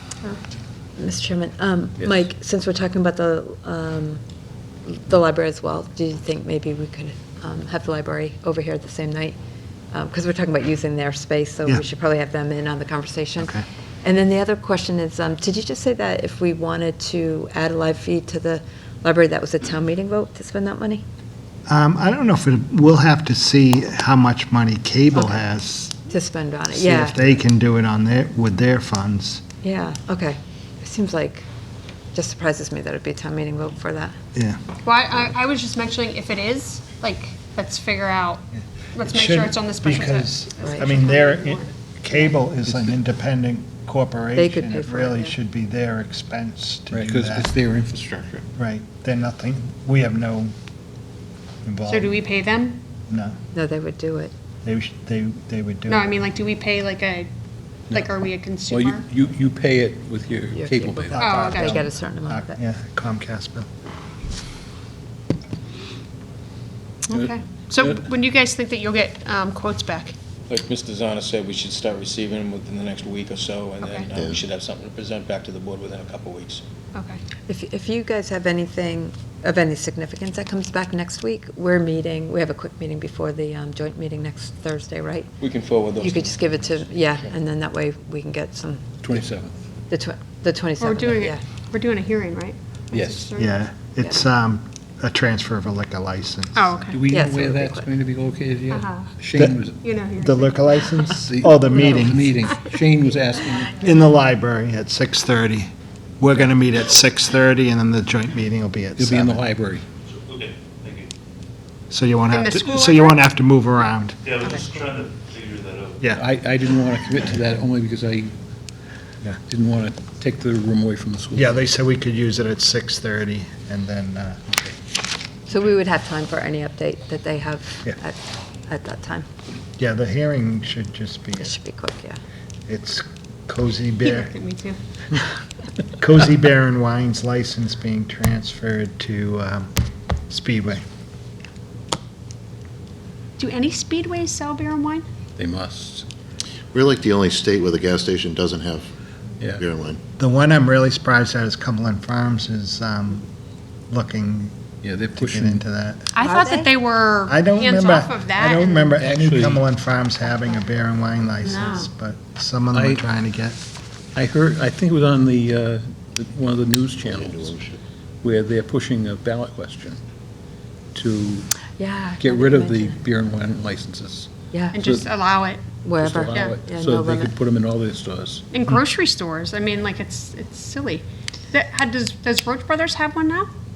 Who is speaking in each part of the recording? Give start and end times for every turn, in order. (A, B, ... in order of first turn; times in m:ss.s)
0:01.0-0:04.2 A
0:02.0-0:02.2 B
0:04.8-0:09.4 A
0:09.9-0:21.0 A
0:13.4-0:13.6 C
0:21.7-0:26.1 C
0:26.1-0:27.3 A
0:26.7-0:29.4 C
0:29.6-0:31.5 A
0:32.1-0:34.2 A
0:34.3-0:34.6 C
0:34.8-0:41.7 D
0:38.6-0:47.5 C
0:40.6-0:40.9 A
0:42.6-0:42.9 B
0:44.3-0:45.3 A
0:46.9-0:48.4 B
0:48.6-0:50.5 C
0:51.6-0:52.2 C
0:51.9-0:52.8 D
0:53.1-0:53.4 C
0:53.5-0:54.3 A
0:54.6-0:56.2 C
0:55.9-0:57.3 D
0:57.9-0:59.0 D
0:58.7-1:01.2 B
1:00.5-1:02.6 A
1:01.1-1:03.7 C
1:01.2-1:01.8 D
1:07.1-1:10.1 D
1:07.1-1:08.0 B
1:10.5-1:16.6 E
1:13.8-1:14.1 D
1:14.1-1:14.4 F
1:16.9-1:17.2 D
1:17.4-1:25.3 A
1:25.4-1:27.3 E
1:26.0-1:28.8 A
1:29.0-1:29.5 B
1:29.9-1:31.4 A
1:30.8-1:33.6 D
1:32.9-1:33.2 B
1:33.4-1:36.9 C
1:36.5-1:37.0 D
1:36.9-1:39.8 B
1:37.1-1:37.9 A
1:38.7-1:39.1 D
1:39.8-1:40.9 D
1:40.2-1:42.3 C
1:41.2-1:43.8 B
1:43.7-1:49.4 C
1:49.0-1:49.8 B
1:50.3-1:51.0 G
1:51.9-1:54.2 C
1:52.3-1:53.2 D
1:54.3-1:55.9 G
1:54.4-1:54.8 A
1:56.1-1:58.3 B
1:59.5-2:01.6 B
2:01.3-2:04.7 C
2:05.5-2:09.3 A
2:09.8-2:11.6 C
2:11.4-2:12.2 A
2:12.7-2:14.3 C
2:14.0-2:14.8 D
2:16.0-2:19.7 C
2:20.3-2:20.8 C
2:23.4-2:25.0 D
2:25.4-2:26.1 B
2:26.7-2:28.9 F
2:29.5-2:30.0 F
2:30.2-2:33.3 C
2:33.9-2:34.6 C
2:34.8-2:35.6 B
2:35.2-2:36.1 C
2:36.1-2:38.9 D
2:36.2-2:36.7 A
2:37.3-2:43.6 C
2:39.0-2:39.6 B
2:41.4-2:41.9 D
2:42.7-2:43.0 B
2:44.1-2:47.6 B
2:47.0-2:47.8 F
2:48.2-2:50.0 B
2:50.9-2:51.5 B
2:51.8-2:53.0 A
2:52.2-2:55.1 B
2:54.5-2:54.8 A
2:54.7-2:55.6 D
2:55.8-2:57.3 A
2:56.0-2:58.4 B
2:58.5-3:03.5 D